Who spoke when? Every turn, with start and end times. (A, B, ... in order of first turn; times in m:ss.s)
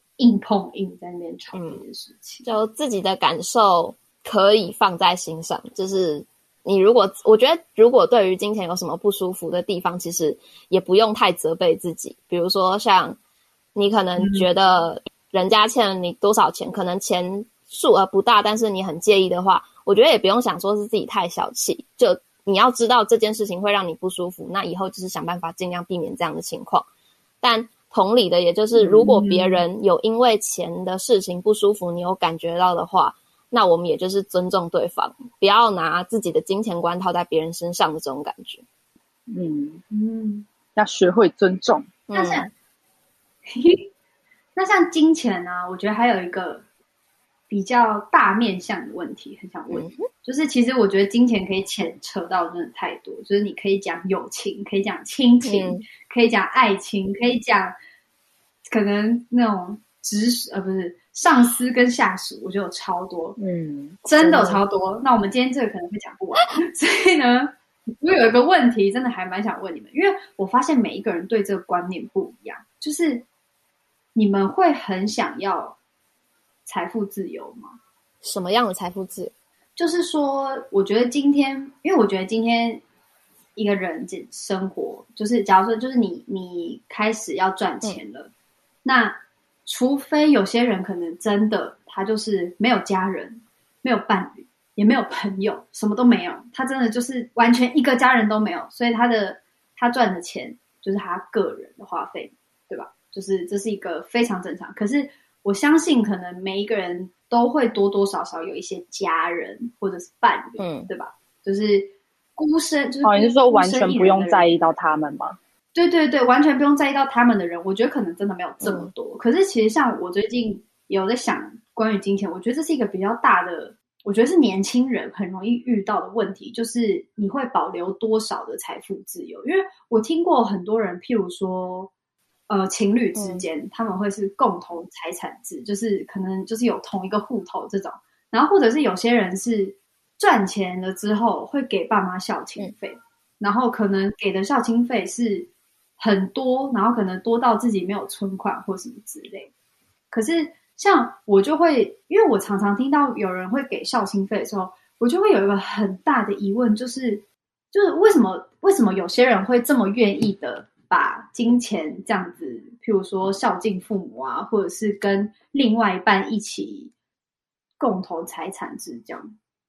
0:00.2-0:02.5 A
0:01.5-0:01.8 B
0:02.4-0:13.2 B
0:13.8-0:26.9 B
0:14.2-0:14.5 A
0:27.4-0:38.6 B
0:28.8-0:29.6 A
0:39.3-0:39.8 C
0:39.9-0:40.5 A
0:40.8-0:41.9 C
0:42.1-0:42.5 B
0:42.1-0:42.5 A
0:43.5-0:43.9 A
0:44.6-0:46.6 A
0:47.5-0:57.8 A
0:49.7-0:50.1 B
0:55.4-0:55.8 B
0:58.7-1:03.4 A
1:03.4-1:04.0 C
1:04.0-1:13.3 A
1:04.2-1:04.6 B
1:14.2-1:15.8 A
1:16.7-1:17.8 A
1:18.2-1:19.3 B
1:19.8-1:22.8 A
1:23.6-1:28.3 A
1:28.8-1:54.5 A
1:50.6-1:50.9 B
1:53.0-1:55.4 C
1:55.8-2:11.9 A
1:58.6-1:58.9 B
2:12.5-2:29.5 A
2:13.2-2:13.4 B
2:30.1-2:46.9 A
2:47.8-2:49.3 A